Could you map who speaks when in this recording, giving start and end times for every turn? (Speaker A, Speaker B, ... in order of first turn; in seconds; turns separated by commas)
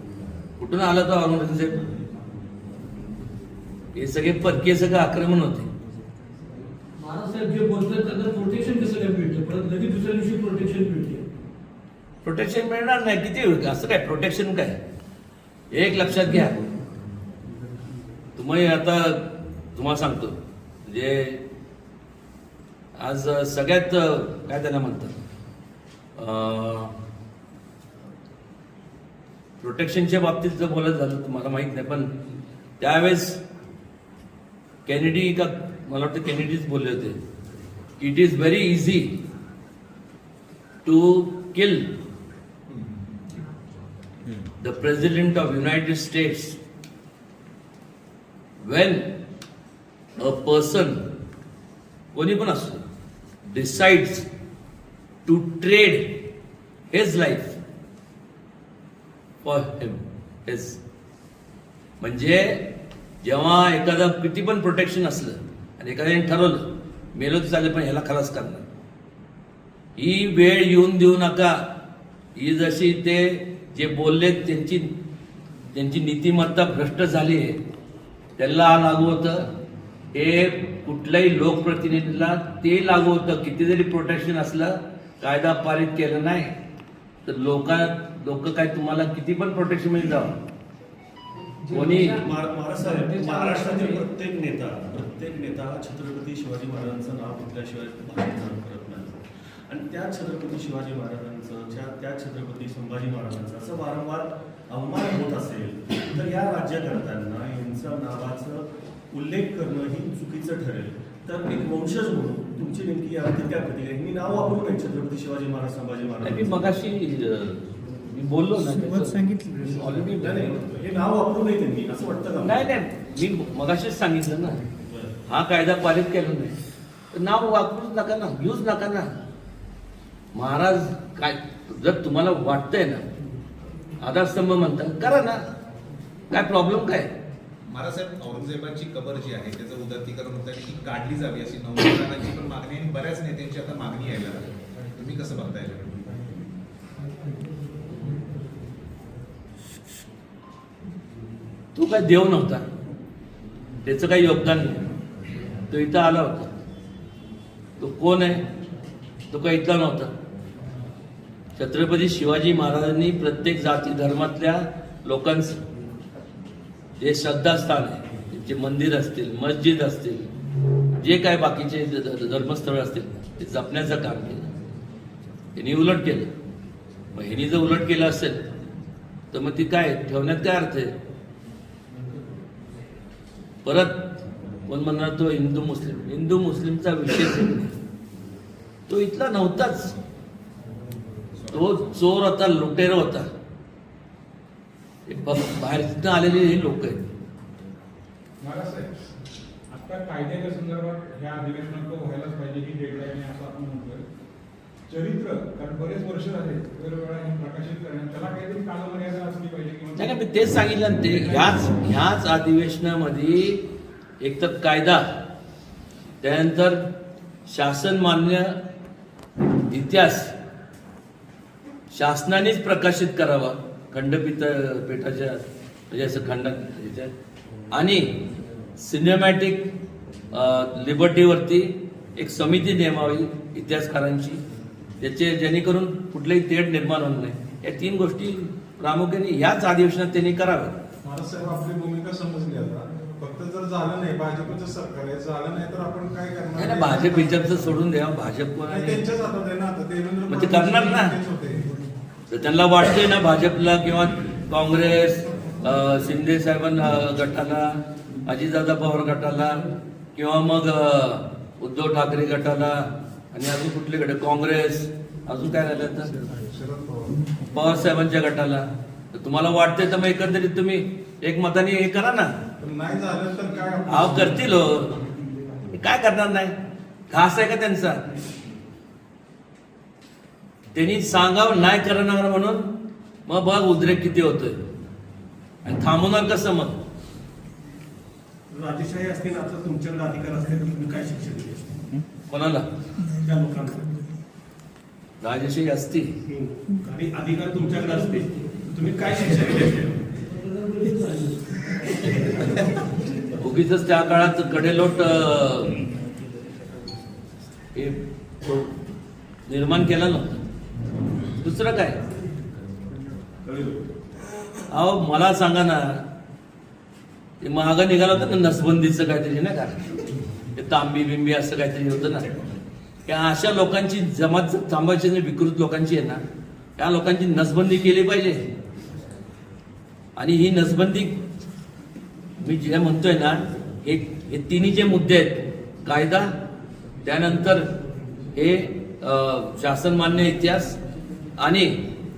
Speaker A: 0.6-1.8, Speaker A: 3.9-5.7, Speaker B: 7.0-11.2, Speaker A: 12.2-14.8, Speaker A: 15.7-16.6, Speaker A: 18.4-21.4, Speaker A: 23.0-25.1, Speaker A: 26.2-26.9, Speaker A: 29.6-32.1, Speaker A: 32.8-33.4, Speaker A: 34.9-37.2, Speaker A: 38.0-39.2, Speaker A: 40.8-41.9, Speaker C: 42.7-43.2, Speaker A: 44.6-46.6, Speaker A: 48.6-49.1, Speaker A: 50.2-51.0, Speaker A: 52.1-52.8, Speaker A: 53.5-54.2, Speaker A: 55.2-56.2, Speaker A: 56.9-57.5, Speaker A: 59.4-60.8, Speaker A: 62.0-62.7, Speaker A: 63.2-68.6, Speaker A: 70.0-71.6, Speaker A: 72.4-74.9, Speaker A: 75.7-77.6, Speaker A: 78.4-79.5, Speaker A: 80.1-86.5, Speaker A: 87.2-90.3, Speaker B: 91.6-94.0, Speaker A: 91.7-92.2, Speaker D: 92.0-116.8, Speaker A: 116.2-120.5, Speaker B: 118.5-120.2, Speaker D: 119.6-122.7, Speaker A: 122.4-124.6, Speaker D: 124.8-125.2, Speaker A: 125.3-126.5, Speaker A: 127.1-129.1, Speaker A: 130.3-133.0, Speaker A: 134.0-135.4, Speaker A: 136.3-137.1, Speaker C: 137.6-146.3, Speaker A: 151.7-152.6, Speaker A: 153.8-154.8, Speaker A: 155.7-156.5, Speaker A: 157.8-158.4, Speaker A: 159.3-160.1, Speaker A: 161.6-165.6, Speaker A: 167.0-170.3, Speaker A: 171.0-174.5, Speaker A: 175.5-176.3, Speaker A: 177.1-178.4, Speaker A: 179.3-180.9, Speaker A: 183.6-184.1, Speaker A: 184.7-187.7, Speaker A: 188.9-189.9, Speaker A: 191.5-193.3, Speaker A: 195.1-197.0, Speaker E: 198.4-198.9, Speaker E: 199.7-204.0, Speaker E: 204.9-210.4, Speaker A: 210.0-213.6, Speaker E: 211.0-211.7, Speaker A: 214.2-215.0, Speaker A: 216.2-216.8, Speaker A: 217.5-218.6, Speaker A: 219.7-220.3, Speaker A: 221.9-227.1, Speaker A: 227.7-228.2, Speaker A: 228.8-229.7, Speaker A: 230.3-234.4, Speaker A: 235.0-240.8, Speaker F: 241.0-247.8, Speaker A: 246.6-249.0, Speaker F: 248.7-251.7, Speaker A: 250.3-251.2, Speaker A: 252.3-266.1, Speaker F: 266.2-267.2, Speaker A: 267.5-272.3, Speaker F: 272.6-274.4, Speaker A: 273.9-274.9, Speaker A: 275.7-276.6, Speaker A: 277.1-278.1, Speaker A: 280.7-282.7, Speaker A: 283.3-284.6, Speaker A: 285.6-286.8, Speaker D: 288.5-291.8, Speaker A: 292.3-292.7, Speaker D: 293.1-293.9, Speaker A: 295.2-296.1, Speaker D: 296.3-300.1, Speaker B: 300.2-302.8, Speaker A: 303.4-305.8, Speaker A: 307.7-308.7, Speaker A: 309.5-310.3, Speaker A: 311.4-312.0, Speaker D: 313.4-313.8, Speaker A: 314.7-316.0, Speaker A: 317.4-319.8, Speaker A: 320.5-322.2, Speaker A: 323.1-326.2, Speaker A: 326.8-328.4, Speaker A: 330.1-331.2, Speaker A: 332.4-336.3, Speaker A: 337.0-337.7, Speaker A: 338.3-340.8, Speaker A: 341.4-341.8